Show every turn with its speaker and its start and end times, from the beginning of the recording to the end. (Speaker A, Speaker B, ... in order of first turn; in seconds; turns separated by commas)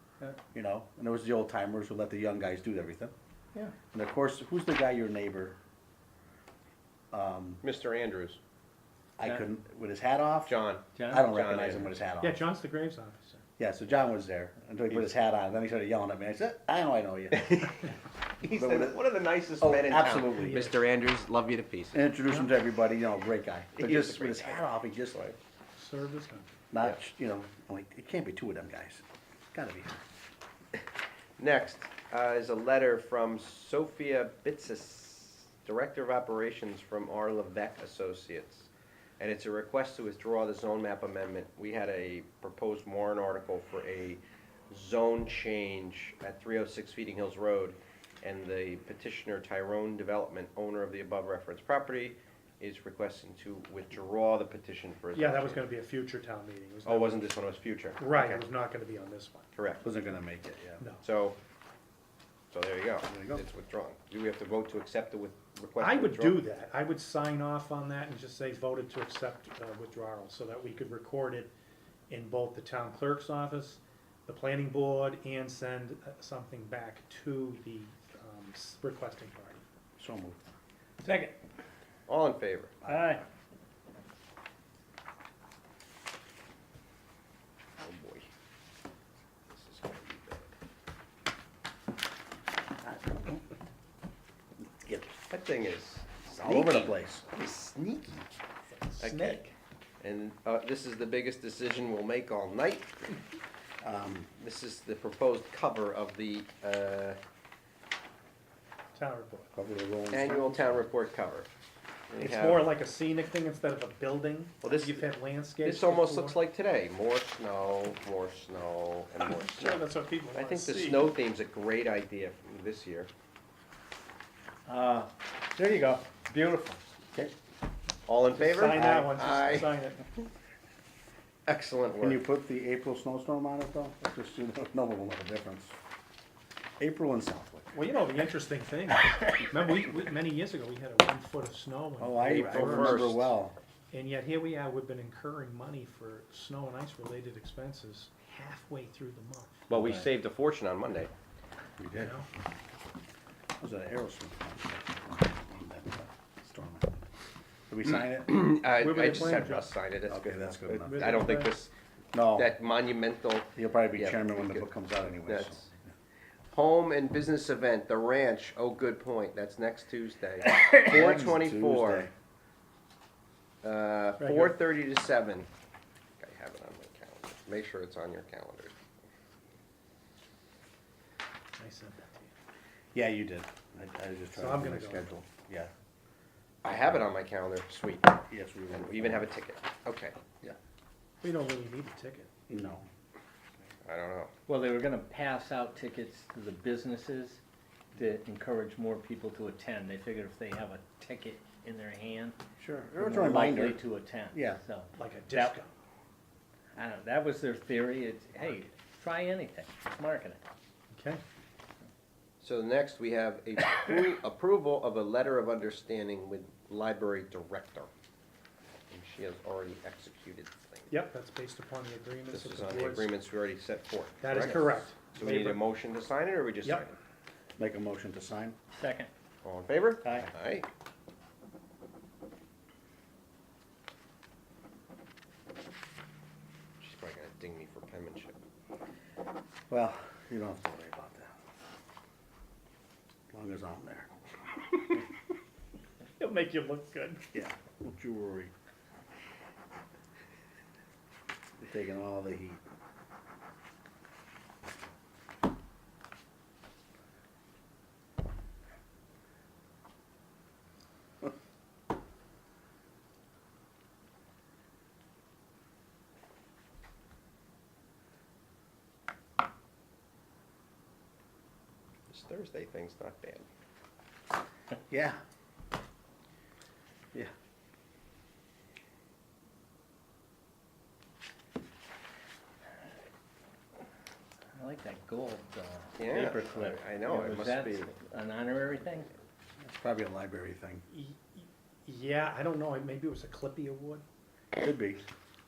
Speaker A: 0.5-3.1, Speaker A: 3.9-5.6, Speaker A: 7.1-7.6, Speaker B: 7.6-8.4, Speaker A: 9.2-10.5, Speaker B: 10.4-11.9, Speaker C: 10.9-11.3, Speaker A: 11.1-12.4, Speaker D: 12.2-13.4, Speaker A: 13.6-17.9, Speaker B: 17.3-17.7, Speaker B: 18.4-22.1, Speaker A: 18.5-19.0, Speaker A: 19.6-20.6, Speaker D: 20.3-20.7, Speaker A: 21.9-25.4, Speaker D: 22.2-22.5, Speaker B: 23.8-24.7, Speaker D: 25.8-26.5, Speaker A: 26.7-30.0, Speaker B: 31.4-55.6, Speaker D: 55.1-57.3, Speaker B: 56.9-58.4, Speaker D: 58.0-59.5, Speaker B: 59.5-59.8, Speaker A: 59.8-60.8, Speaker B: 61.0-61.4, Speaker B: 62.5-66.4, Speaker A: 63.1-63.5, Speaker D: 65.8-71.5, Speaker D: 72.1-79.6, Speaker A: 80.0-80.4, Speaker C: 81.0-81.3, Speaker B: 82.1-82.8, Speaker A: 82.8-83.1, Speaker C: 82.8-83.2, Speaker B: 87.8-88.3, Speaker B: 89.5-90.5, Speaker A: 92.8-93.5, Speaker A: 94.6-95.2, Speaker B: 95.3-98.2, Speaker A: 96.4-97.3, Speaker D: 98.7-99.4, Speaker B: 99.0-103.2, Speaker A: 103.8-104.3, Speaker B: 104.4-107.2, Speaker D: 108.9-109.5, Speaker A: 109.5-110.8, Speaker B: 110.1-111.5, Speaker B: 112.1-112.7, Speaker D: 112.2-116.4, Speaker B: 114.6-115.0, Speaker B: 115.6-123.1, Speaker D: 119.2-121.1, Speaker C: 124.7-126.8, Speaker B: 128.1-129.7, Speaker D: 128.4-130.0, Speaker A: 128.7-129.1, Speaker B: 131.5-132.2, Speaker A: 132.0-135.8, Speaker A: 136.8-137.7, Speaker D: 137.7-143.0, Speaker A: 142.0-143.6, Speaker B: 142.2-143.3, Speaker D: 143.9-149.8, Speaker B: 149.7-151.1, Speaker A: 151.8-152.2, Speaker D: 151.9-152.3, Speaker A: 153.6-157.0, Speaker A: 157.7-158.3, Speaker B: 157.8-161.7, Speaker D: 158.7-159.7, Speaker A: 160.1-161.3, Speaker D: 160.8-161.6, Speaker A: 162.1-162.5, Speaker B: 162.3-164.7, Speaker A: 163.5-165.9, Speaker B: 165.2-165.6, Speaker B: 166.5-172.1, Speaker A: 170.9-172.1, Speaker B: 173.6-175.5, Speaker D: 174.2-174.6, Speaker B: 176.2-178.8, Speaker D: 181.6-182.3, Speaker A: 182.9-185.7, Speaker D: 184.3-185.1, Speaker B: 186.6-190.2, Speaker A: 188.3-189.3, Speaker D: 191.2-192.3, Speaker A: 192.5-192.9, Speaker B: 193.8-194.3, Speaker C: 194.5-197.4, Speaker C: 197.9-202.3, Speaker A: 202.6-204.6, Speaker C: 203.0-205.6, Speaker D: 205.0-205.7, Speaker C: 206.8-210.4, Speaker D: 210.9-211.2, Speaker B: 212.4-217.9, Speaker B: 218.9-220.9, Speaker D: 220.9-223.1, Speaker B: 222.3-227.0, Speaker D: 224.2-225.7, Speaker A: 227.6-228.6, Speaker C: 228.7-229.1, Speaker B: 229.4-230.7, Speaker A: 230.0-230.3, Speaker B: 236.8-238.4, Speaker A: 239.7-241.3, Speaker A: 243.3-244.1, Speaker D: 246.2-247.2, Speaker A: 247.3-248.5, Speaker A: 251.6-252.6, Speaker B: 272.1-273.4, Speaker A: 274.9-275.2, Speaker C: 284.5-289.1, Speaker B: 286.0-287.9, Speaker A: 289.6-290.8, Speaker D: 290.9-294.0, Speaker A: 294.6-295.0